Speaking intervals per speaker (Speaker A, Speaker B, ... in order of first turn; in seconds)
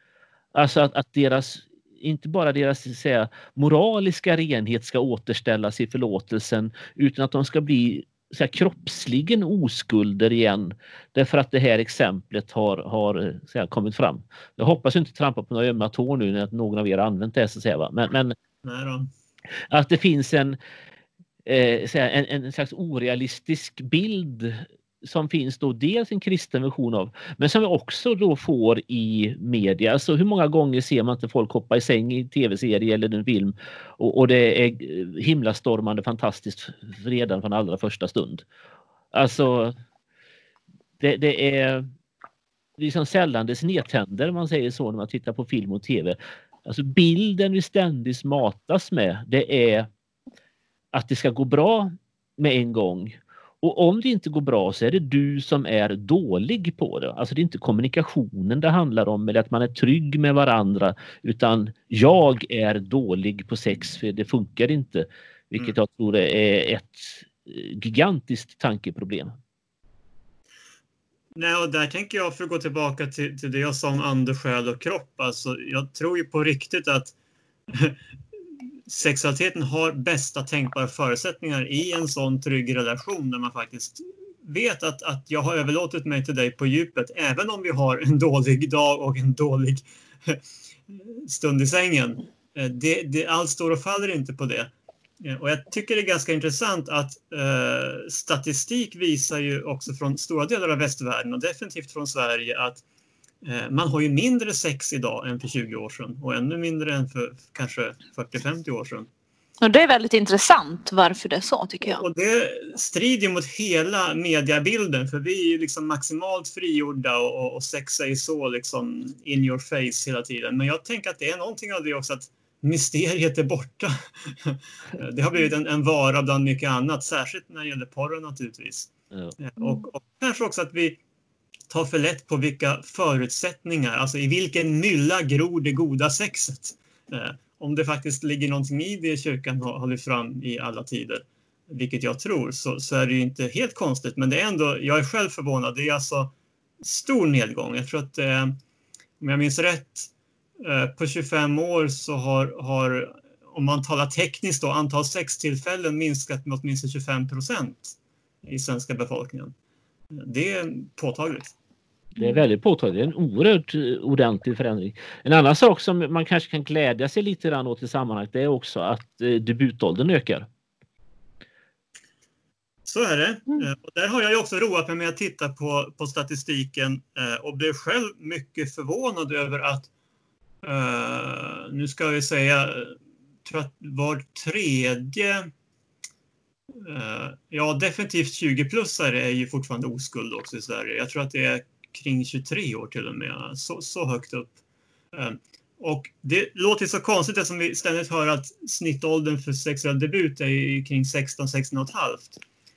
Speaker A: 0.5-18.4, 19.7-20.6, 21.4-38.4, 39.1-39.8, 41.0-41.9, 42.8-49.9, 50.9-69.4, 162.2-170.5
Speaker B: 18.6-19.1, 71.3-77.1, 77.7-78.0, 78.9-102.8, 103.4-109.1, 111.8-131.0, 131.7-148.6, 149.2-159.5, 160.1-161.5, 172.9-179.9, 180.6-185.5, 186.8-194.6, 195.1-202.4
Speaker C: 109.6-112.0